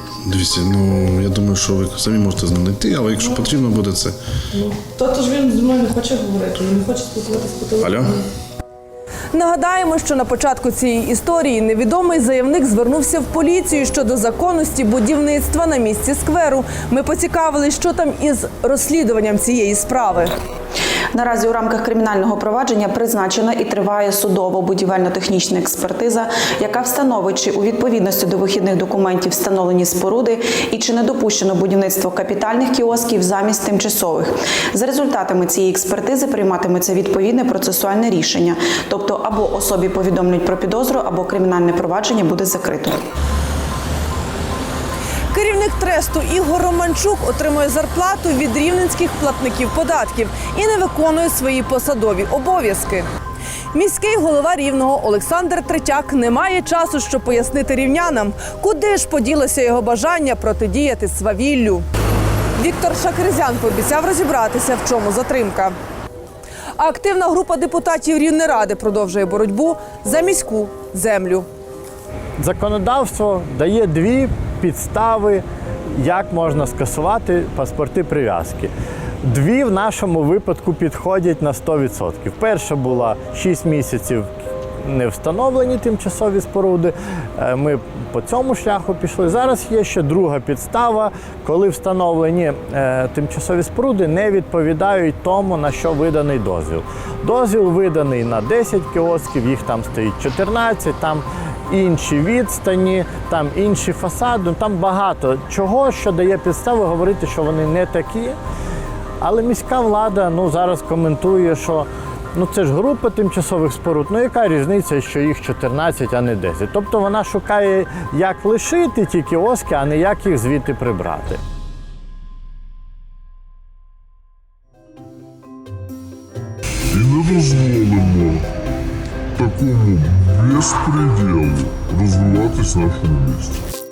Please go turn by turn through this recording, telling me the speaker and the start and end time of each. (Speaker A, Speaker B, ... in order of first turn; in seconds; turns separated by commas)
Speaker A: 0.3-4.1, Speaker B: 4.6-7.8, Speaker C: 6.6-7.2, Speaker A: 7.8-8.1, Speaker C: 9.3-20.3, Speaker D: 21.1-43.0, Speaker C: 45.3-53.1, Speaker C: 53.7-61.9, Speaker C: 62.5-65.7, Speaker C: 66.8-71.5, Speaker E: 72.4-75.4, Speaker E: 76.0-78.7, Speaker E: 79.2-84.3, Speaker E: 84.8-108.3, Speaker E: 109.2-121.4, Speaker F: 126.9-128.5, Speaker F: 129.3-133.6